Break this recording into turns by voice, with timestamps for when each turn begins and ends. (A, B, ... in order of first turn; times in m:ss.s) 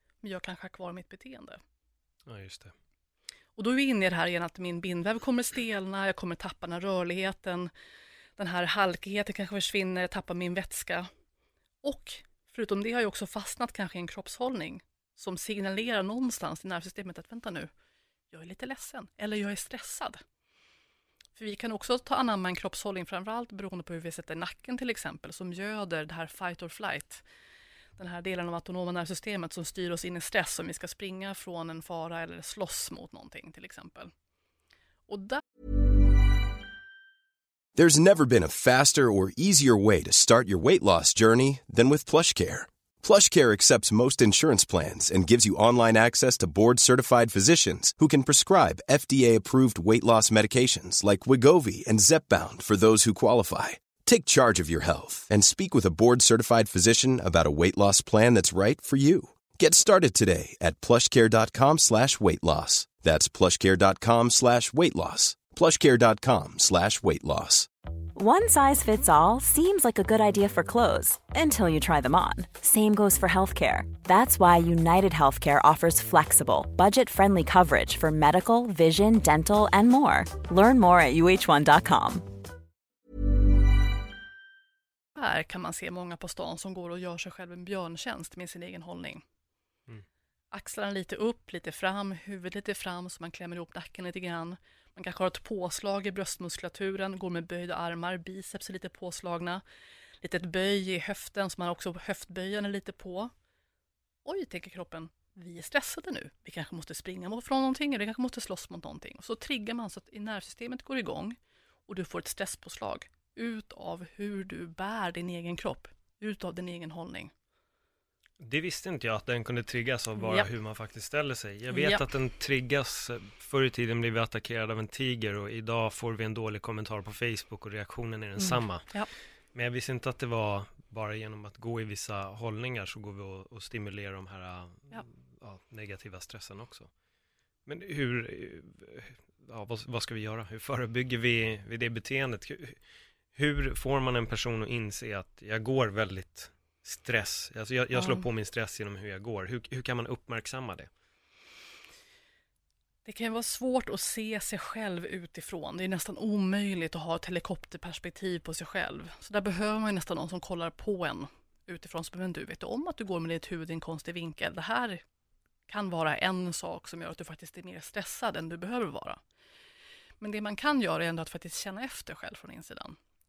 0:00.2-0:01.6 A
0:02.2-0:02.7 B
0:03.6-0:07.7 A
0:08.4-0:11.1 A
0:11.8-0:17.7 A
0:18.3-0:20.2 A
0:21.4-0:27.2 A
0:28.0-0:34.1 A
0:35.1-0:35.4 A
0:37.7-1:07.7 C
1:08.2-1:22.2 D
1:25.1-1:29.2 A
1:30.5-1:39.6 A
1:40.2-1:43.3 A
1:44.2-1:51.4 A
1:51.9-1:57.3 A
1:58.4-2:08.9 B
2:00.2-2:00.5 A
2:01.7-2:02.0 A
2:08.4-2:09.1 A
2:09.5-2:16.9 B
2:17.6-2:22.8 B
2:23.3-2:30.9 B
2:27.9-2:28.2 A
2:33.0-2:45.0 A
2:45.7-2:49.2 A
2:50.2-2:53.0 A